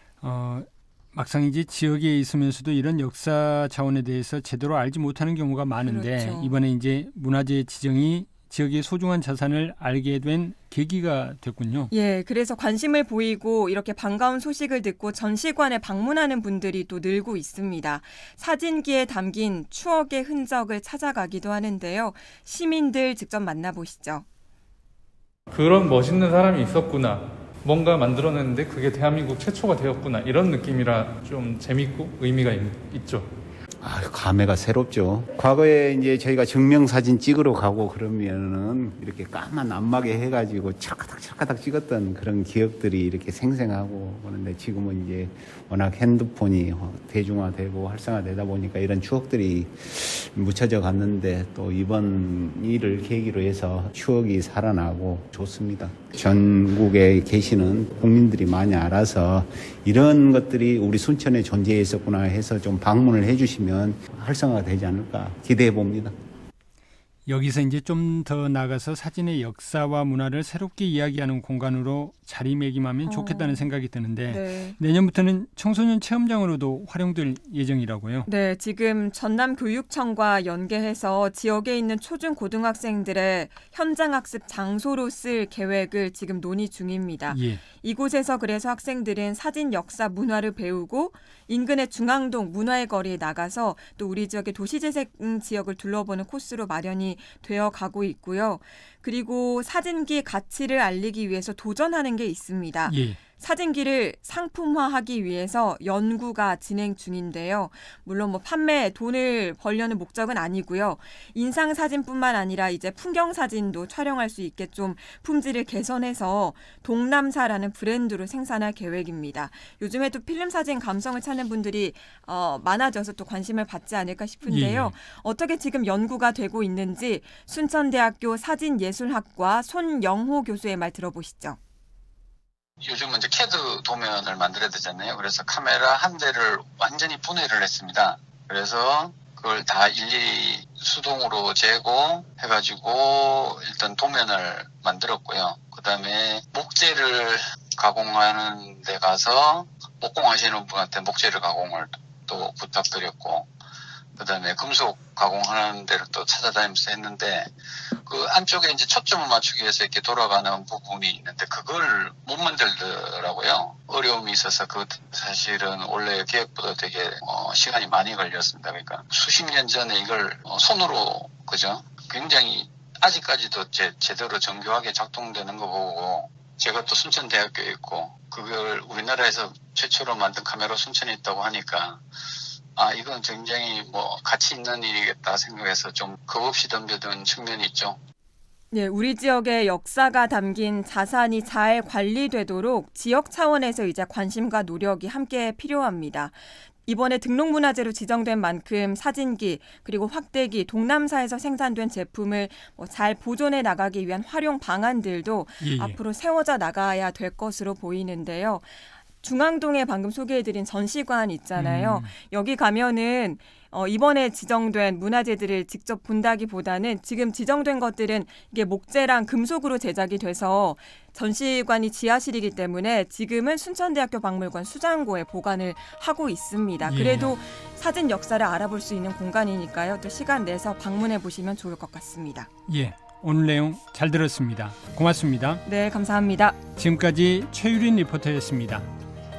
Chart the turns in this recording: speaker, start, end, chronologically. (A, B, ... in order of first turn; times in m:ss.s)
0:00.2-0:11.9 A
0:05.8-0:06.5 B
0:11.9-0:24.2 B
0:25.5-0:33.3 C
0:33.8-1:06.1 D
1:07.2-1:18.3 A
1:13.0-1:13.7 B
1:14.3-1:14.8 B
1:18.2-2:11.6 B
1:27.3-1:27.6 A
1:42.9-1:43.2 A
2:04.4-2:04.9 A
2:12.8-2:33.5 E
2:34.1-2:37.5 E
2:38.0-3:02.0 E
3:02.8-3:08.0 E
3:08.7-3:52.5 B
3:25.6-3:26.0 A
3:31.5-3:32.1 A
3:46.8-3:47.3 A
3:52.7-3:55.6 A
3:55.6-3:56.6 B
3:56.8-3:58.9 A